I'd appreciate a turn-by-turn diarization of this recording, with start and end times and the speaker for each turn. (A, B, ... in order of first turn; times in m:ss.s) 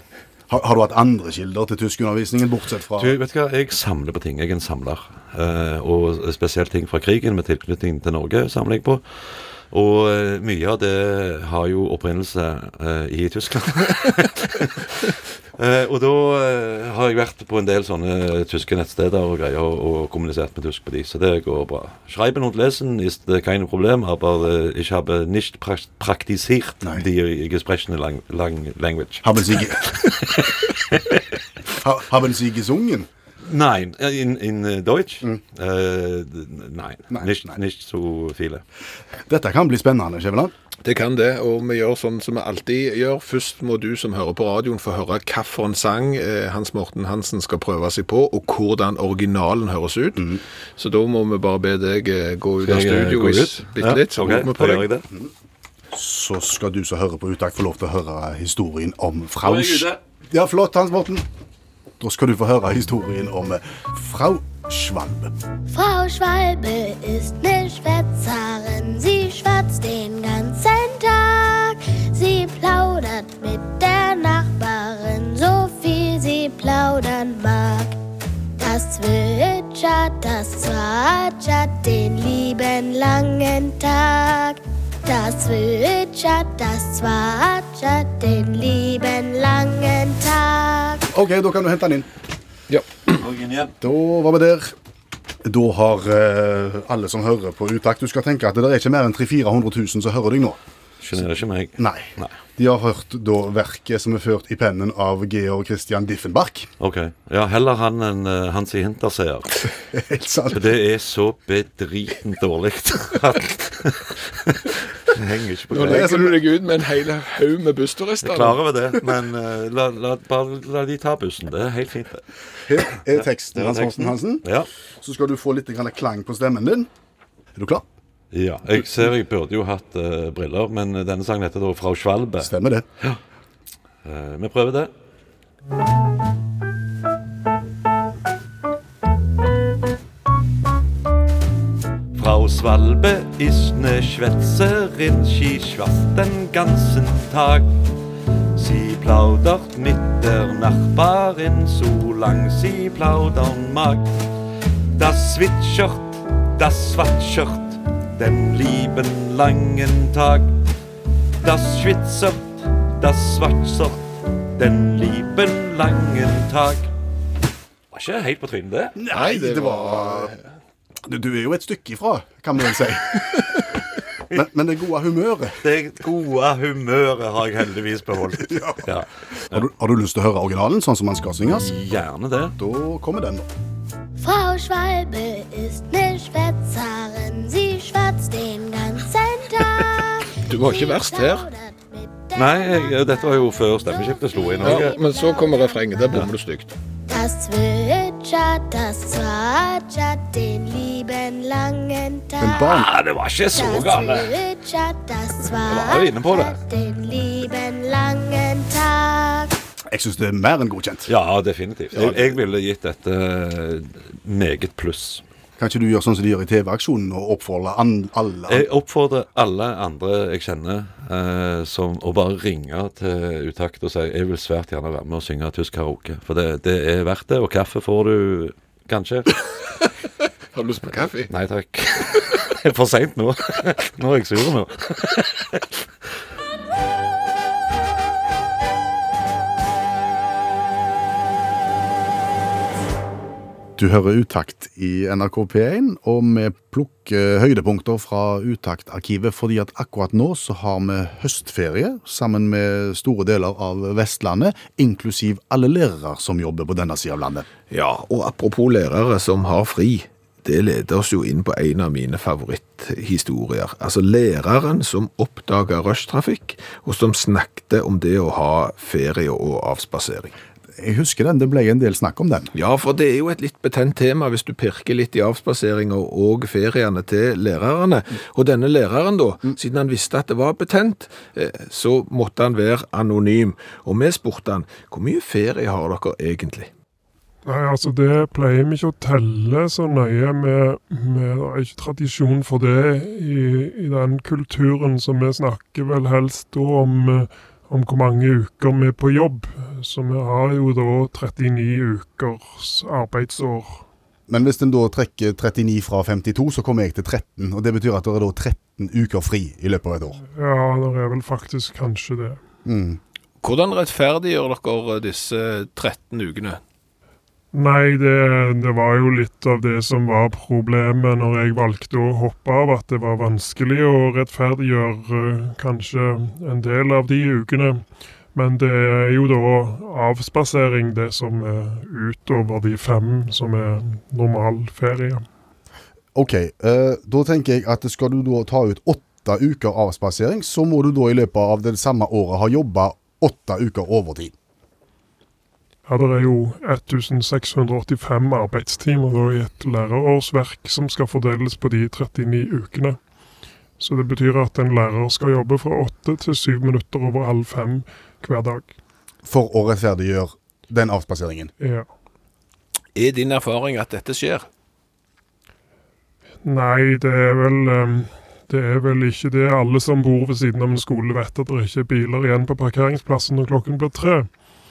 0:00.5-0:03.1 A
0:03.0-0:14.7 B
0:15.6-0:31.2 B
0:29.2-0:30.2 A
0:31.7-0:33.1 A
0:33.4-0:38.6 B
0:37.1-0:37.6 A
0:39.3-0:40.5 A
0:40.8-0:54.8 C
0:50.2-0:50.4 A
0:52.6-0:55.0 B
0:54.8-0:55.3 A
0:55.9-1:01.2 A
0:59.4-1:00.0 B
1:02.0-1:05.3 A
1:05.7-1:18.0 D
1:18.6-1:31.0 D
1:31.1-1:32.1 A
1:32.7-1:33.1 C
1:33.2-1:33.7 B
1:33.8-1:34.7 A
1:35.4-1:40.6 A
1:41.0-1:42.3 B
1:41.8-1:46.7 A
1:46.8-1:49.5 B
1:49.9-1:50.7 A
1:50.5-1:54.0 B
1:55.1-1:56.2 B
1:55.7-1:58.6 C
1:55.8-1:56.3 A
1:58.2-2:02.2 B
2:02.6-2:04.5 A
2:02.9-2:04.7 B
2:05.0-2:06.9 A
2:07.6-2:07.8 A
2:08.3-2:13.2 B
2:12.4-2:12.8 A
2:14.0-2:14.9 B
2:22.1-2:27.7 B
2:28.5-2:34.1 B
2:34.9-2:40.5 B
2:41.4-2:44.0 B
2:44.5-2:46.9 B
2:47.9-2:49.0 B
2:49.0-2:50.3 A
2:49.1-2:50.5 C
2:51.0-2:53.7 A
2:54.3-2:55.6 A
2:55.6-2:59.7 B
2:58.4-2:58.9 A
2:59.5-3:02.0 A
3:01.5-3:02.5 B
3:02.6-3:03.4 A
3:04.2-3:16.0 D
3:10.5-3:11.5 C
3:12.3-3:15.0 B
3:14.6-3:16.7 C
3:17.1-3:22.8 D
3:22.4-3:22.9 A
3:22.7-3:24.3 B
3:23.5-3:29.5 D
3:25.6-3:26.6 B
3:29.9-3:31.1 A
3:31.1-3:35.2 B
3:35.6-3:38.7 A
3:38.5-3:49.4 B
3:50.5-3:51.3 C
3:51.3-3:55.6 B
4:03.8-4:17.4 A
4:17.7-4:30.3 C
4:30.8-4:32.5 A
4:32.5-4:46.7 C
4:47.4-5:03.8 E
5:04.3-5:10.2 A
5:10.2-5:12.4 E
5:12.6-5:13.0 A
5:13.4-5:16.6 C
5:17.5-5:35.2 E
5:36.1-5:44.3 A
5:45.9-5:53.0 E
5:53.8-5:58.7 E
5:59.2-6:01.5 A
6:01.6-6:01.9 E
6:03.0-6:04.5 C
6:06.4-6:14.4 E